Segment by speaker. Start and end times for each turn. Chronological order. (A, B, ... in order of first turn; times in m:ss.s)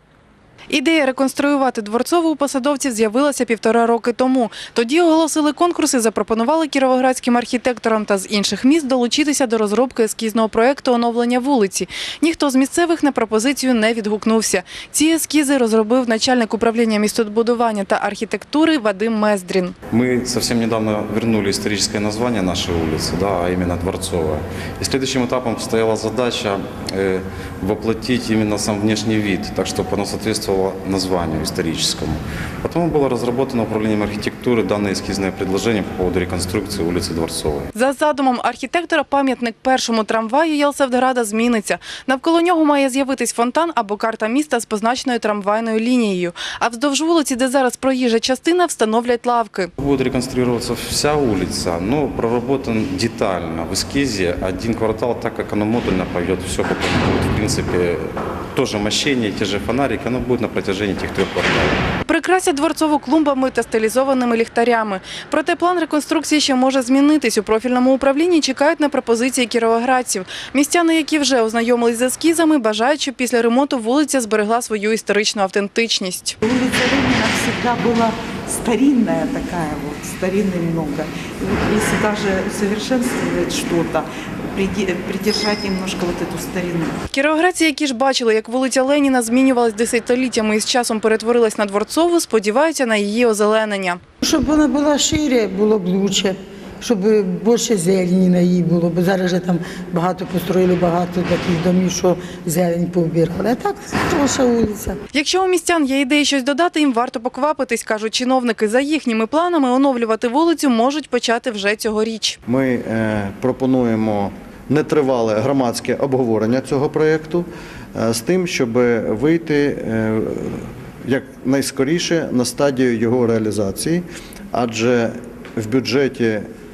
0:00.7-0:19.7 A
0:19.9-0:37.7 B
0:37.8-0:49.7 A
0:49.8-1:01.9 B
1:02.1-1:16.4 A
1:16.4-1:27.0 C
1:27.1-1:34.0 A
1:34.2-1:45.0 D
1:45.1-1:52.4 A
1:52.5-2:06.4 E